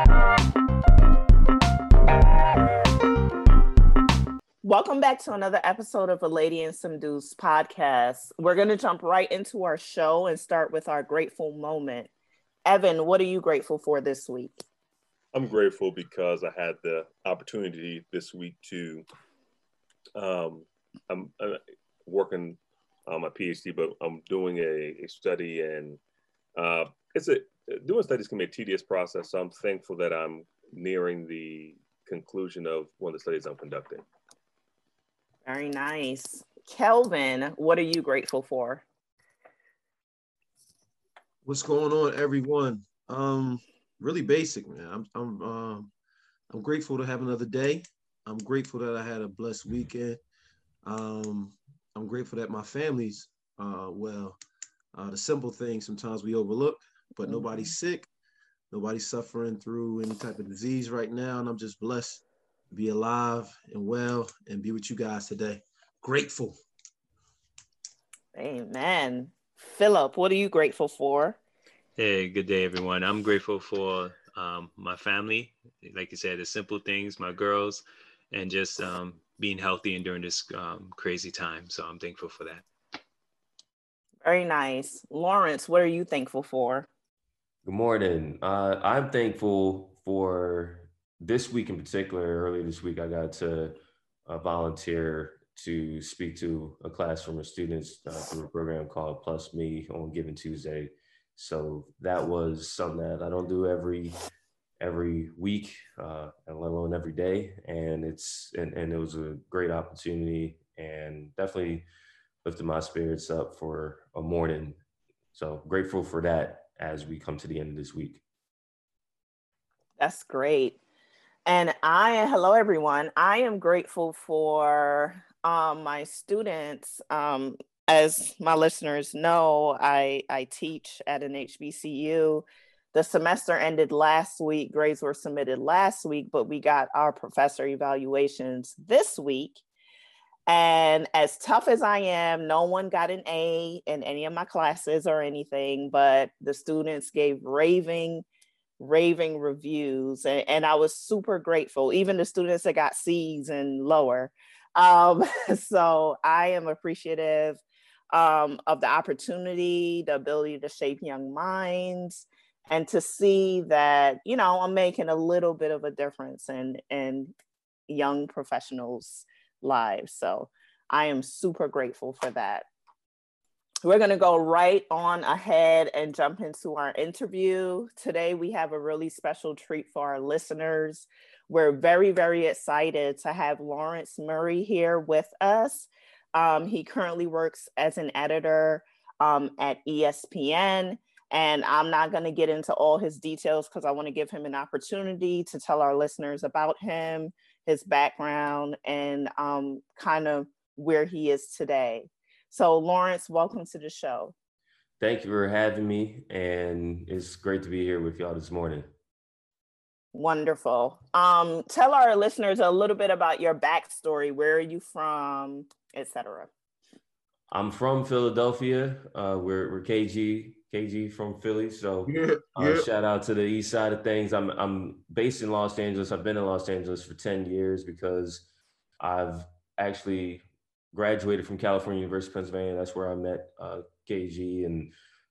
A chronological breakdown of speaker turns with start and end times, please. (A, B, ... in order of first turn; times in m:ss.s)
0:04.6-0:12.1 A
0:12.7-0:14.6 A
0:15.3-0:19.0 B
0:20.2-0:26.0 B
0:26.6-0:34.0 B
0:35.4-0:38.8 A
0:41.4-0:45.9 C
0:46.5-0:50.2 C
0:50.8-0:54.4 C
0:54.9-0:58.1 C
0:57.3-0:57.7 A
0:58.7-1:06.6 C
1:08.4-1:11.4 A
1:12.0-1:22.7 D
1:24.2-1:26.9 A
1:27.6-1:33.8 E
1:34.3-1:44.2 E
1:44.8-1:51.9 E
1:52.4-1:54.8 E
1:55.3-1:58.2 E
2:00.0-2:00.8 A
2:01.5-2:19.6 A
2:20.5-2:28.2 A
2:28.8-2:47.3 A
2:47.9-2:52.7 A
2:53.8-3:24.3 A
3:25.0-3:28.9 E
3:30.1-3:36.5 A
3:37.5-3:48.5 E
3:42.1-3:42.9 C
3:49.0-3:54.9 E